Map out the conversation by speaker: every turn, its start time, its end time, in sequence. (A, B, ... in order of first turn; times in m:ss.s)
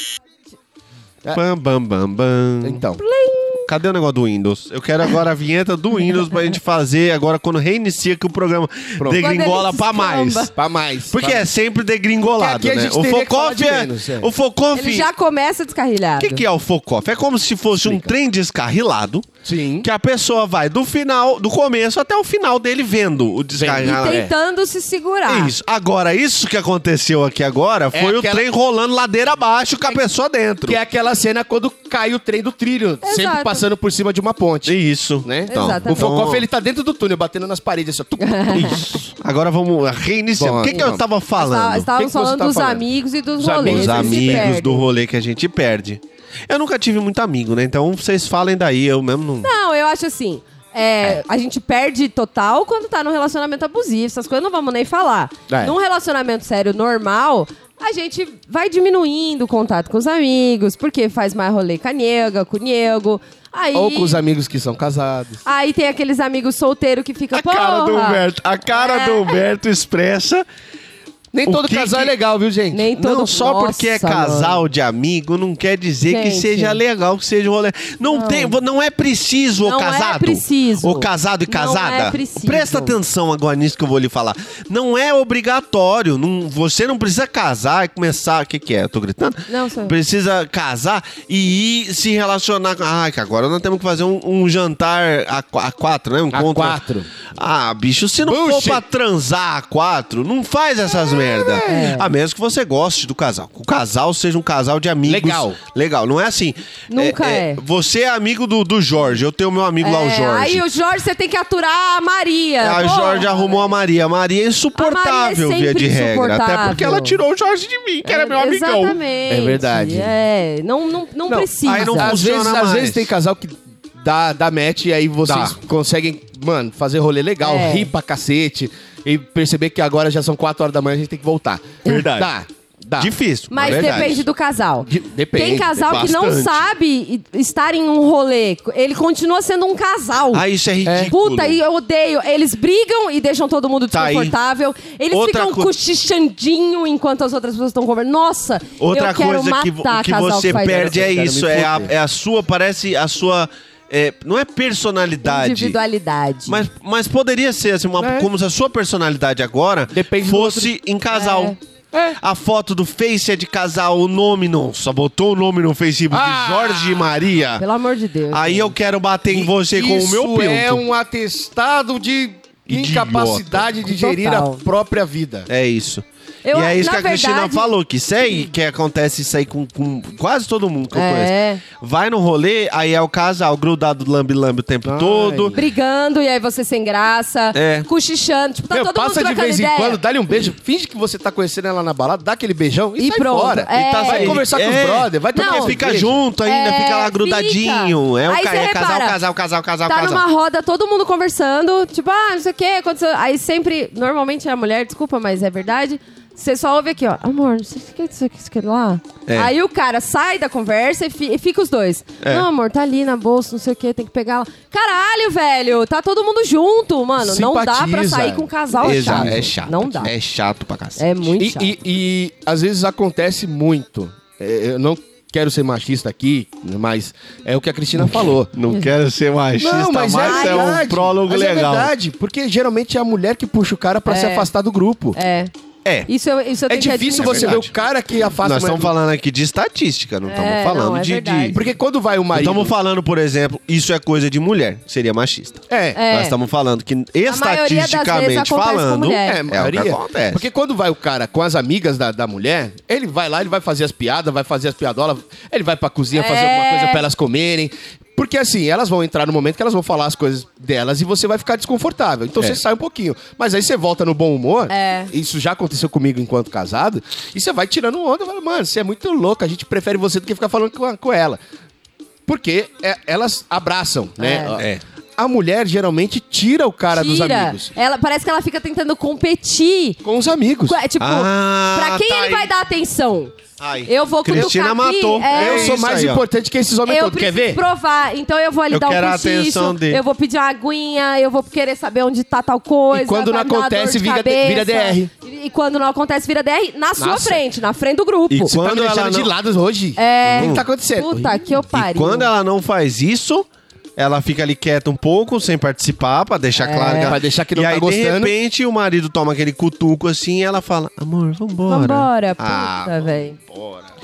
0:01.3-0:02.8 A
0:02.6-0:03.0 B
0:03.0-0:03.7 C
0:03.7-0:10.5 A
0:09.0-0:09.3 B
0:09.2-0:10.5 C
0:10.6-0:11.5 B
0:11.1-0:15.1 A
0:12.4-0:14.3 B
0:14.7-0:16.4 C
0:16.2-0:19.3 A
0:17.7-0:18.1 B
0:19.4-0:19.9 B
0:19.8-0:24.3 A
0:23.5-0:24.3 B
0:23.8-0:25.5 C
0:25.3-0:30.8 A
0:27.9-0:28.4 B
0:30.7-0:38.9 B
0:33.0-0:33.6 C
0:34.7-0:36.4 A
0:35.5-0:36.2 C
0:38.2-0:38.9 C
0:38.6-0:41.9 A
0:40.4-0:41.0 B
0:40.7-0:44.8 C
0:41.9-0:42.9 B
0:43.4-0:44.8 B
0:43.6-0:49.5 A
0:49.4-1:04.2 C
0:55.5-0:55.8 B
1:03.7-1:05.4 B
1:05.4-1:09.4 C
1:07.3-1:10.5 A
1:11.3-1:12.9 B
1:11.5-1:12.1 A
1:12.7-1:14.6 C
1:12.9-1:36.8 A
1:16.1-1:16.8 C
1:18.1-1:18.6 C
1:19.6-1:23.0 C
1:29.5-1:30.0 C
1:36.3-1:37.1 B
1:37.4-1:50.6 A
1:38.2-1:38.8 B
1:40.9-1:41.9 B
1:41.6-1:42.1 C
1:45.0-1:45.6 B
1:46.9-1:47.6 C
1:49.8-1:53.7 C
1:52.6-1:59.0 A
1:54.8-1:57.2 C
1:58.0-2:02.2 C
1:59.3-2:00.1 B
2:01.3-2:14.2 B
2:01.6-2:03.1 A
2:05.3-2:05.6 A
2:07.4-2:07.9 C
2:11.8-2:12.3 A
2:13.0-2:14.2 A
2:13.5-2:20.4 C
2:14.8-2:16.1 B
2:15.8-2:16.7 A
2:20.3-2:21.6 A
2:20.8-2:21.1 B
2:21.1-2:31.1 C
2:23.9-2:24.3 A
2:25.1-2:25.7 A
2:28.8-2:35.8 A
2:30.6-2:31.9 B
2:35.2-2:36.6 C
2:36.5-2:41.6 A
2:38.0-2:38.3 B
2:39.9-2:40.7 B
2:41.1-2:41.6 C
2:41.9-2:42.2 B
2:42.2-2:47.6 A
2:46.1-2:47.1 B
2:47.6-2:48.8 C
2:48.3-2:50.8 A
2:49.3-2:55.5 B
2:52.7-2:53.7 A
2:53.8-2:54.6 C
2:55.5-3:05.6 A
2:56.4-2:57.7 C
3:00.9-3:01.6 C
3:04.8-3:05.6 B
3:05.5-3:10.0 C
3:07.5-3:07.9 A
3:08.7-3:16.2 B
3:13.0-3:14.4 C
3:13.7-3:20.2 A
3:15.3-3:15.8 C
3:16.4-3:19.2 C
3:19.9-3:40.1 C
3:32.2-3:32.5 A
3:37.2-3:39.5 B
3:38.8-3:41.1 A
3:41.0-3:41.7 C
3:41.4-3:48.5 B
3:48.1-3:51.9 A
3:49.6-3:55.2 B
3:50.2-3:50.8 C
3:54.1-3:54.5 C
3:55.2-3:55.5 C
3:56.1-3:57.6 C
3:56.7-3:58.9 B
3:57.2-3:57.7 A
3:58.4-4:01.6 A
4:00.3-4:01.6 C
4:01.5-4:02.7 B
4:02.3-4:10.4 A
4:05.7-4:06.0 B
4:06.0-4:06.4 C
4:07.3-4:09.4 C
4:09.2-4:31.4 B
4:16.1-4:17.1 C
4:24.7-4:25.1 C
4:32.3-4:37.7 B
4:34.2-4:34.6 C
4:34.6-4:34.8 A
4:36.9-4:40.0 C
4:40.0-4:40.8 B
4:40.7-4:45.8 C
4:41.0-4:42.5 A
4:43.6-4:46.2 A
4:45.3-4:47.6 B
4:46.9-4:58.6 C
4:48.7-4:50.0 A
4:52.9-4:55.1 B
4:57.0-4:57.4 B
4:58.3-5:01.5 B
4:58.4-4:59.3 A
5:00.0-5:02.3 C
5:00.4-5:00.6 A
5:01.7-5:13.9 A
5:06.6-5:07.2 C
5:07.0-5:08.3 B
5:11.7-5:13.4 C